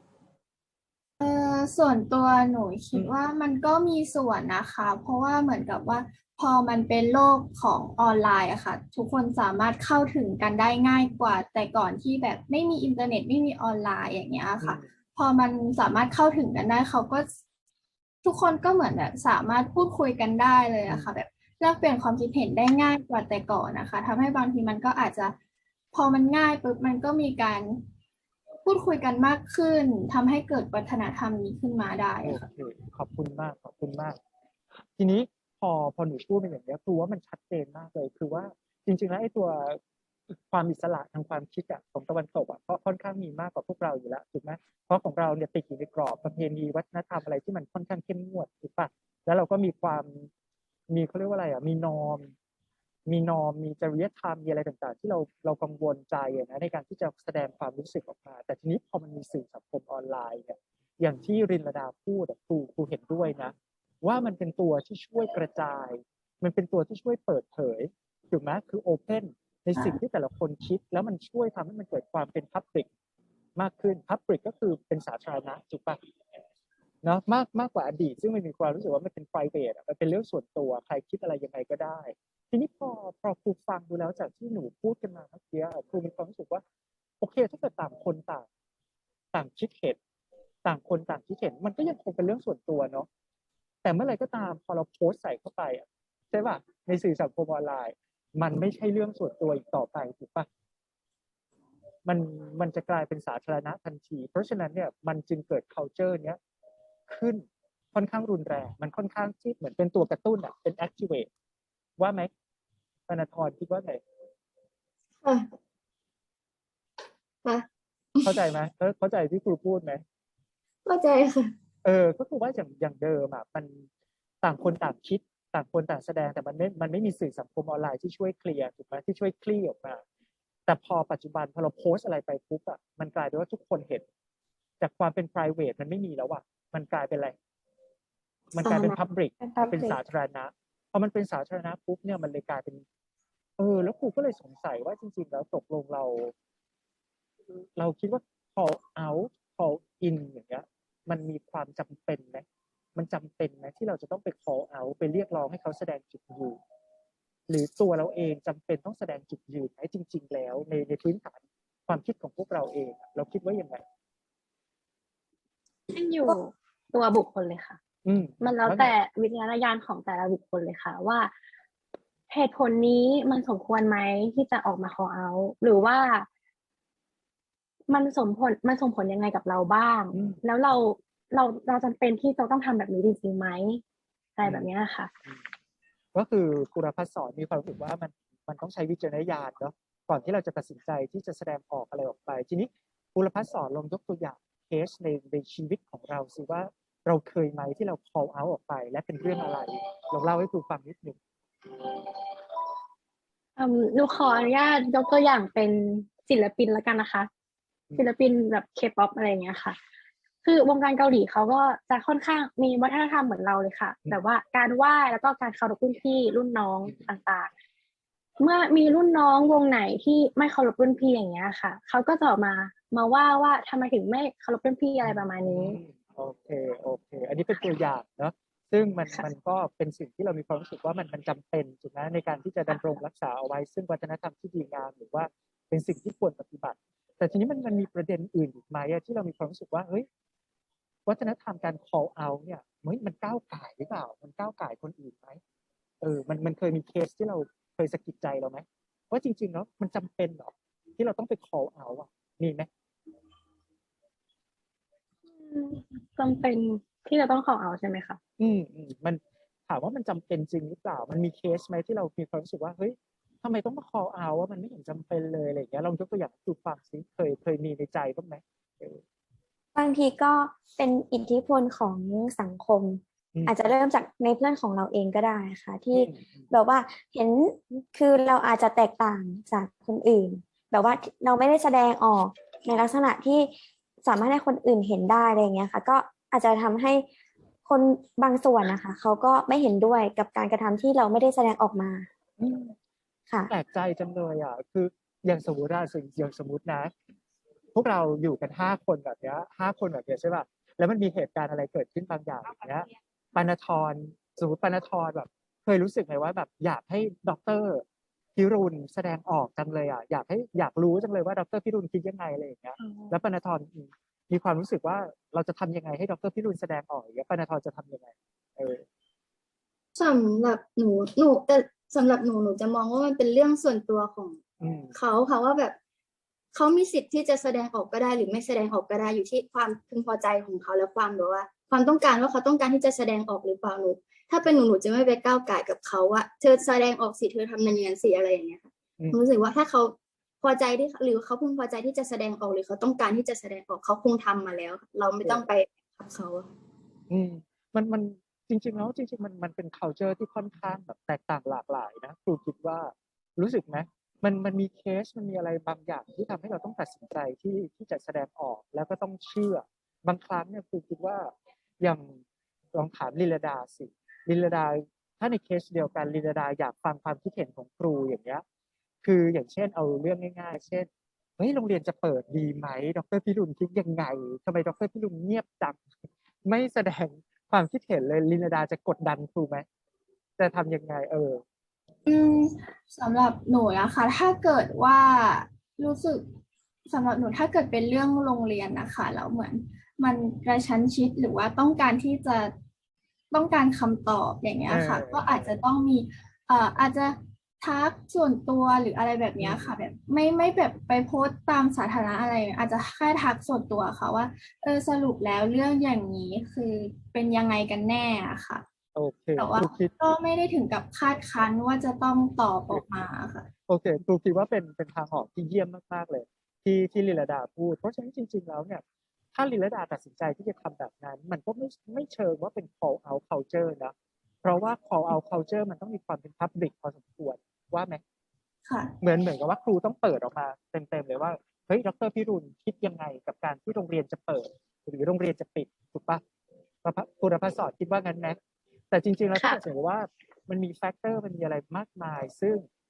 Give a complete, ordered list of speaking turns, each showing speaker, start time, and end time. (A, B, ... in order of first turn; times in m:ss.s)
0:01.2-0:17.3 A
0:14.6-0:14.9 B
0:18.2-0:25.3 A
0:25.9-0:27.8 A
0:28.6-0:32.4 A
0:32.2-0:34.2 B
0:35.0-0:39.8 B
0:40.3-0:50.3 B
0:50.9-0:52.3 B
0:53.1-1:12.9 B
1:13.6-1:16.0 B
1:17.0-1:26.6 B
1:27.2-1:28.4 B
1:29.3-1:30.0 B
1:30.6-1:33.1 B
1:33.8-1:40.5 B
1:42.0-1:46.4 B
1:47.1-1:51.3 B
1:52.0-1:52.3 B
1:53.1-1:54.0 B
1:57.4-1:58.3 C
1:58.2-2:00.0 B
2:00.8-2:01.5 C
2:01.8-2:03.9 B
2:04.4-2:10.0 B
2:10.7-2:14.0 B
2:14.8-2:17.3 B
2:18.5-2:22.8 B
2:18.6-2:18.9 C
2:19.4-2:20.0 D
2:23.6-2:26.3 B
2:27.8-2:32.4 B
2:33.0-2:36.6 B
2:37.5-2:43.8 B
2:45.9-2:47.8 E
2:48.0-2:48.9 B
2:48.4-2:51.3 E
2:52.3-2:56.3 E
2:57.9-3:03.8 E
3:00.1-3:00.8 B
3:04.4-3:05.1 E
3:04.4-3:04.7 B
3:06.1-3:21.2 B
3:23.6-3:27.3 E
3:28.0-3:29.8 E
3:30.4-3:37.5 E
3:38.4-3:45.8 E
3:45.0-4:00.1 B
3:52.7-3:53.0 E
4:01.0-4:05.4 B
4:06.0-4:12.7 B
4:15.3-4:18.2 E
4:18.4-4:29.0 B
4:29.7-4:43.5 D
4:35.9-4:36.4 B
4:44.0-4:47.0 D
4:47.6-4:52.1 D
4:52.4-4:52.8 B
4:53.5-4:56.9 B
4:57.7-5:07.8 B
5:08.4-5:18.8 B
5:12.8-5:13.1 E
5:20.0-5:24.4 C
5:24.6-5:24.9 B
5:24.9-5:25.8 C
5:26.5-5:46.5 C
5:47.1-6:02.2 B
6:02.7-6:08.4 B
6:09.0-6:15.8 B
6:16.4-6:19.6 B
6:20.4-6:21.4 B
6:22.0-6:26.3 A
6:26.9-6:32.5 A
6:33.3-6:48.6 A
6:34.7-6:35.6 B
6:39.4-6:39.7 B
6:48.9-6:49.9 B
6:49.4-6:53.5 A
6:53.7-6:58.8 B
6:59.3-7:08.0 B
7:08.6-7:08.9 A
7:09.0-7:16.2 B
7:16.8-7:18.4 B
7:18.9-7:22.6 B
7:19.4-7:19.6 E